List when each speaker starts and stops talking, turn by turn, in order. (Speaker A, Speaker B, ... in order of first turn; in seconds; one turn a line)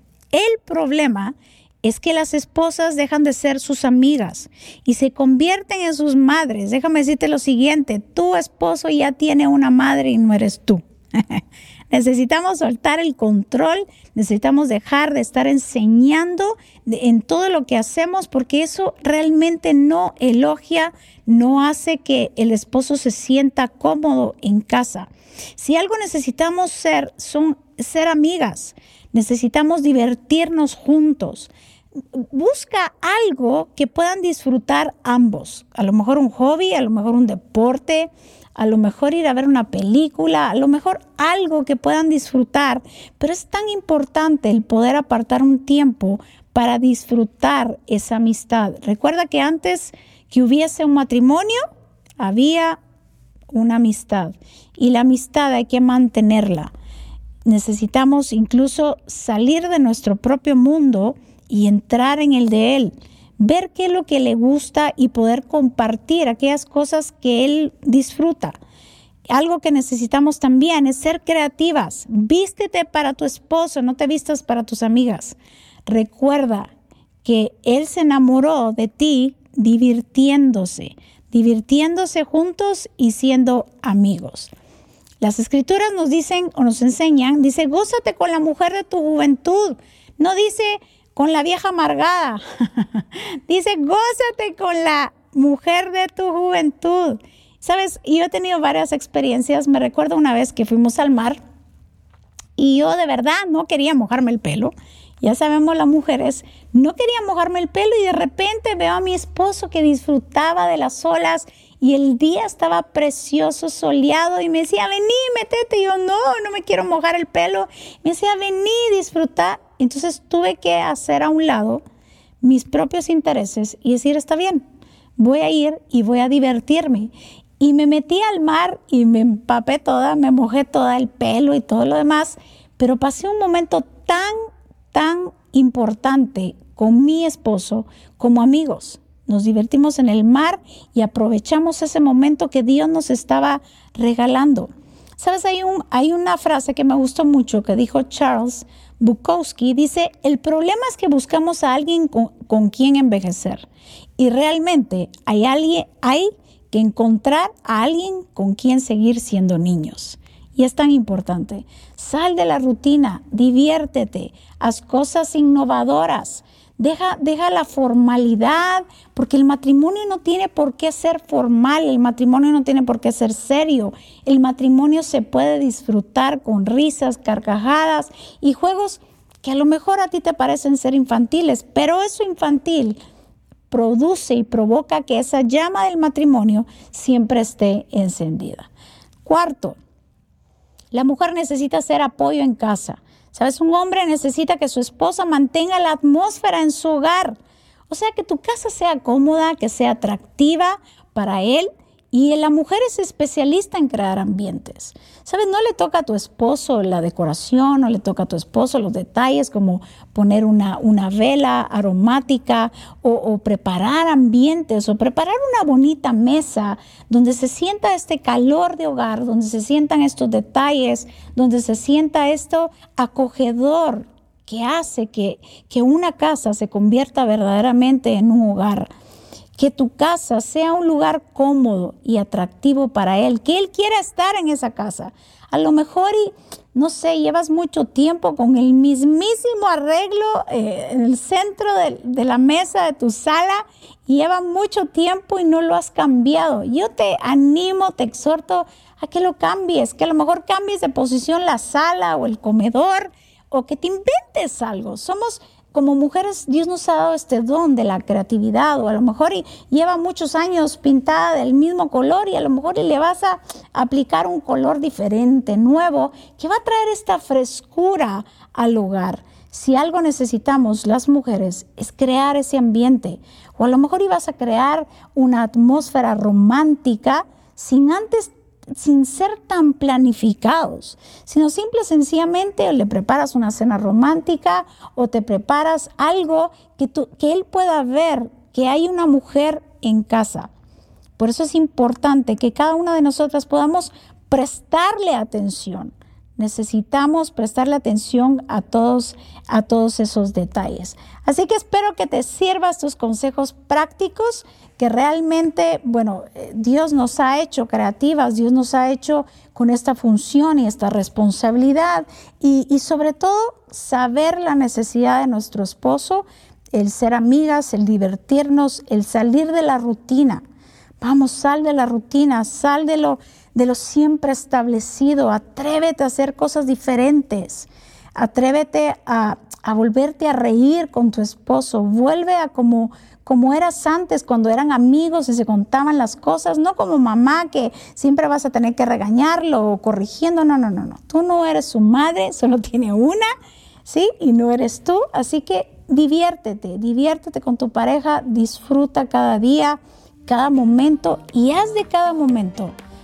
Speaker A: 0.3-31.5
Speaker A: 32.1-51.6
Speaker A: 52.2-52.8
Speaker A: 53.5-56.7
Speaker A: 57.5-68.6
Speaker A: 69.3-76.7
Speaker A: 77.2-84.5
Speaker A: 85.2-101.4
Speaker A: 102.6-121.8
Speaker A: 122.4-124.6
Speaker A: 125.2-134.4
Speaker A: 134.9-153.7
Speaker A: 154.2-183.0
Speaker A: 183.7-188.7
Speaker A: 189.2-189.8
Speaker A: 190.9-197.4
Speaker A: 197.9-228.9
Speaker A: 229.6-290.5
Speaker A: 291.2-320.4
Speaker A: 321.0-343.3
Speaker A: 343.9-352.8